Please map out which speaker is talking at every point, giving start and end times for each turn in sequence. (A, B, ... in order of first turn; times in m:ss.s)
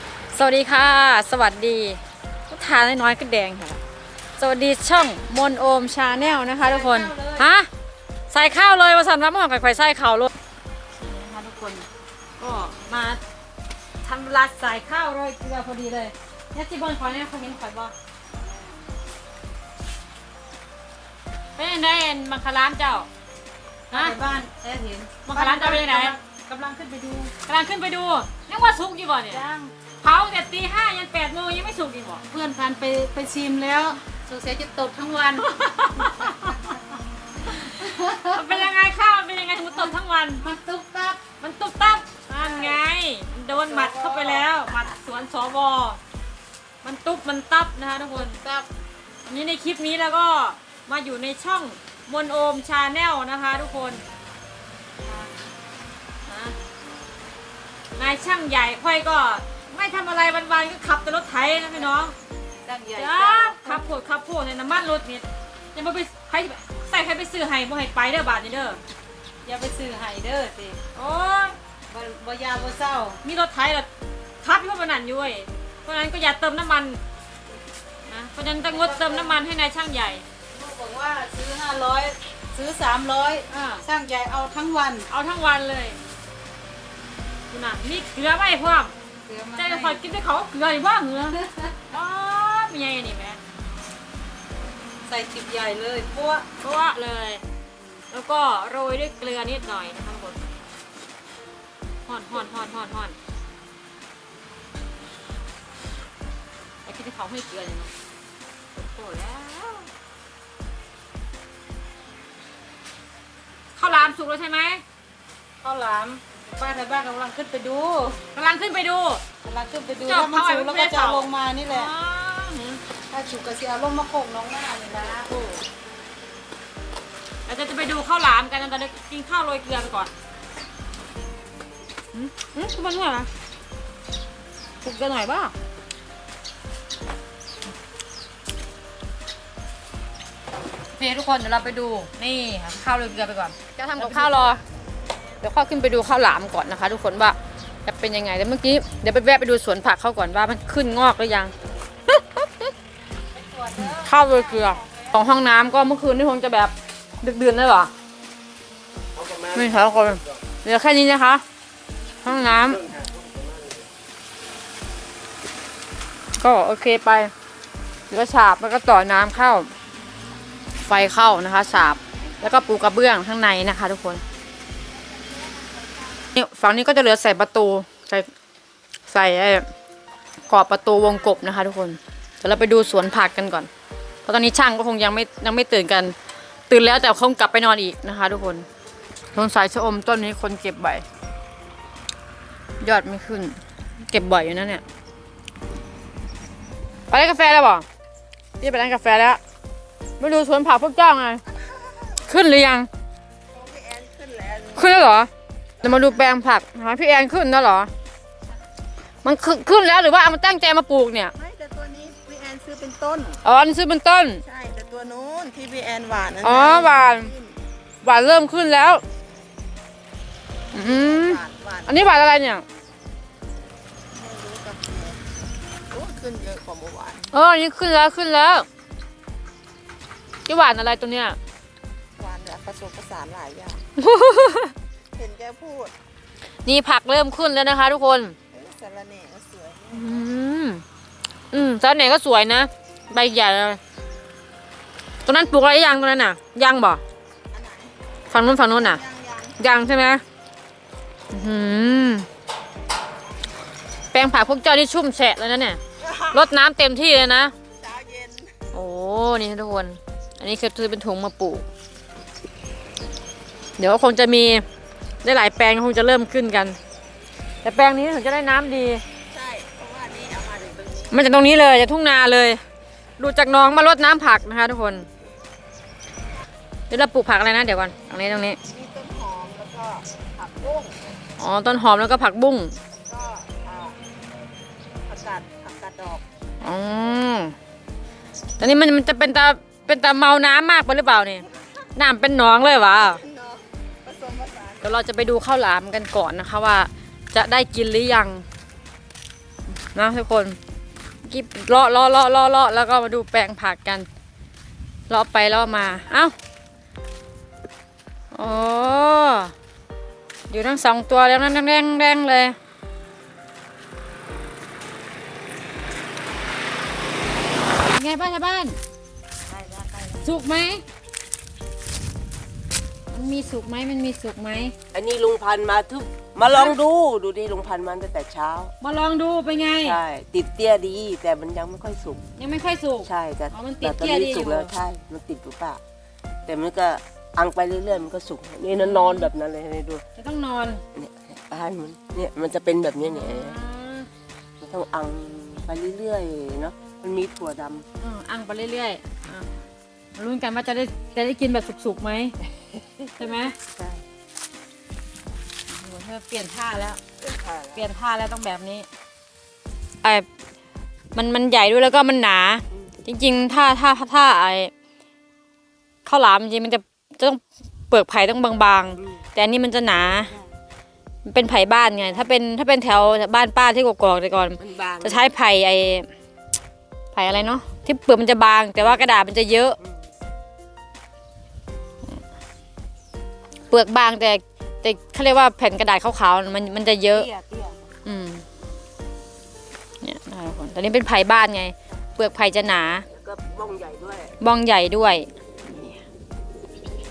0:00.3-0:03.8 A
0:04.4-0:07.7 A
0:06.1-0:07.5 B
0:08.3-0:10.3 A
0:11.0-0:11.9 A
0:12.4-0:13.2 A
0:14.0-0:17.9 A
0:18.4-0:18.8 B
0:21.6-0:23.1 A
0:23.9-0:27.3 B
0:25.2-0:26.2 A
0:27.4-0:29.4 A
0:29.3-0:29.7 B
0:30.0-0:32.2 A
0:32.3-0:35.5 B
0:35.3-0:36.8 A
0:37.4-0:40.4 A
0:37.7-0:38.6 B
0:40.4-0:41.2 B
0:41.4-0:46.0 A
0:42.4-0:42.8 B
0:43.5-0:44.5 B
0:46.8-0:48.4 A
0:48.1-0:48.7 B
0:49.2-0:54.0 A
0:55.0-0:55.3 B
0:56.2-0:56.6 A
0:57.9-1:02.2 A
1:02.6-1:03.8 B
1:03.0-1:08.8 A
1:09.4-1:10.8 B
1:10.9-1:11.6 A
1:11.9-1:13.2 B
1:13.2-1:13.9 A
1:14.4-1:17.0 A
1:18.0-1:20.2 A
1:18.6-1:19.4 B
1:20.5-1:25.1 B
1:23.5-1:23.8 A
1:25.1-1:26.0 A
1:27.5-1:28.9 A
1:29.2-1:30.0 B
1:29.5-1:33.4 A
1:31.4-1:31.7 B
1:35.0-1:36.4 B
1:36.6-1:37.4 A
1:38.1-1:40.4 A
1:42.0-1:43.2 A
1:46.8-1:47.9 A
1:48.8-1:49.9 A
1:53.8-1:54.8 A
1:55.6-1:58.2 B
1:58.3-1:59.2 A
1:59.4-2:01.9 B
2:00.0-2:02.8 A
2:03.1-2:05.3 B
2:05.2-2:05.6 A
2:07.4-2:10.1 A
2:12.1-2:13.3 A
2:14.8-2:15.5 A
2:20.9-2:24.6 A
2:24.1-2:24.6 B
2:25.4-2:31.5 A
2:32.1-2:32.7 A
2:33.3-2:35.0 B
2:33.8-2:37.9 A
2:39.4-2:41.4 A
2:42.2-2:42.9 A
2:46.4-2:47.3 A
2:48.1-2:49.7 A
2:50.8-2:54.2 A
2:56.3-2:58.3 A
2:59.1-2:59.7 A
3:00.5-3:03.7 A
3:04.2-3:06.1 A
3:06.7-3:08.6 A
3:09.3-3:11.0 A
3:12.8-3:13.5 A
3:14.1-3:14.8 A
3:17.1-3:17.8 A
3:18.6-3:19.4 A
3:20.2-3:21.4 A
3:21.8-3:22.1 C
3:22.2-3:22.9 A
3:23.5-3:24.9 C
3:24.7-3:25.3 A
3:25.8-3:27.9 A
3:29.2-3:31.3 A
3:31.4-3:33.4 C
3:33.4-3:34.4 A
3:34.4-3:37.5 C
3:36.4-3:37.3 A
3:38.0-3:39.0 A
3:40.7-3:42.6 A
3:40.7-3:42.1 C
3:44.1-3:45.2 C
3:45.9-3:47.3 C
3:47.3-3:48.6 A
3:50.5-3:51.4 A
3:52.2-3:53.8 C
3:54.0-3:54.7 A
3:55.2-3:55.9 C
3:56.6-3:58.4 A
3:58.5-4:00.3 C
3:59.9-4:00.8 A
4:01.5-4:03.8 A
4:05.2-4:07.0 A
4:07.5-4:07.9 C
4:08.3-4:09.0 A
4:08.6-4:09.5 C
4:09.6-4:10.2 A
4:11.3-4:12.3 A
4:14.1-4:15.8 A
4:16.0-4:16.3 C
4:16.3-4:17.5 A
4:17.8-4:18.5 C
4:18.7-4:21.6 A
4:23.8-4:24.6 A
4:25.2-4:26.8 A
4:27.6-4:29.0 A
4:29.3-4:31.1 C
4:31.1-4:32.6 A
4:33.2-4:35.1 A
4:36.9-4:38.6 A
4:38.7-4:41.1 C
4:41.4-4:42.8 A
4:42.9-4:44.0 C
4:45.1-4:46.2 C
4:46.6-4:47.5 A
4:48.6-4:53.2 A
4:53.2-4:54.8 C
4:54.8-4:58.4 A
4:59.9-5:00.6 A
5:01.2-5:04.1 A
5:05.1-5:06.3 A
5:08.3-5:09.5 A
5:10.5-5:12.6 A
5:17.8-5:18.8 A
5:19.6-5:20.1 D
5:20.2-5:20.8 A
5:23.1-5:24.7 A
5:24.9-5:28.7 D
5:26.4-5:26.8 A
5:28.8-5:30.0 A
5:29.8-5:32.2 D
5:32.4-5:34.7 A
5:33.0-5:35.8 D
5:36.5-5:40.0 D
5:38.7-5:39.3 A
5:40.2-5:40.8 A
5:40.9-5:43.6 D
5:43.0-5:44.1 A
5:44.6-5:47.8 D
5:48.0-5:49.5 A
5:50.2-5:52.4 A
5:53.2-5:53.6 A
5:53.7-5:54.0 D
5:55.7-5:57.0 A
5:57.2-5:57.8 D
5:57.7-5:58.8 A
6:01.1-6:04.7 A
6:06.0-6:10.3 A
6:11.2-6:16.1 A
6:14.6-6:15.2 D
6:17.1-6:19.8 A
6:18.8-6:19.1 D
6:23.7-6:27.3 A
6:27.1-6:27.8 D
6:28.0-6:28.4 A
6:30.0-6:33.0 A
6:33.1-6:34.3 D
6:34.4-6:36.0 A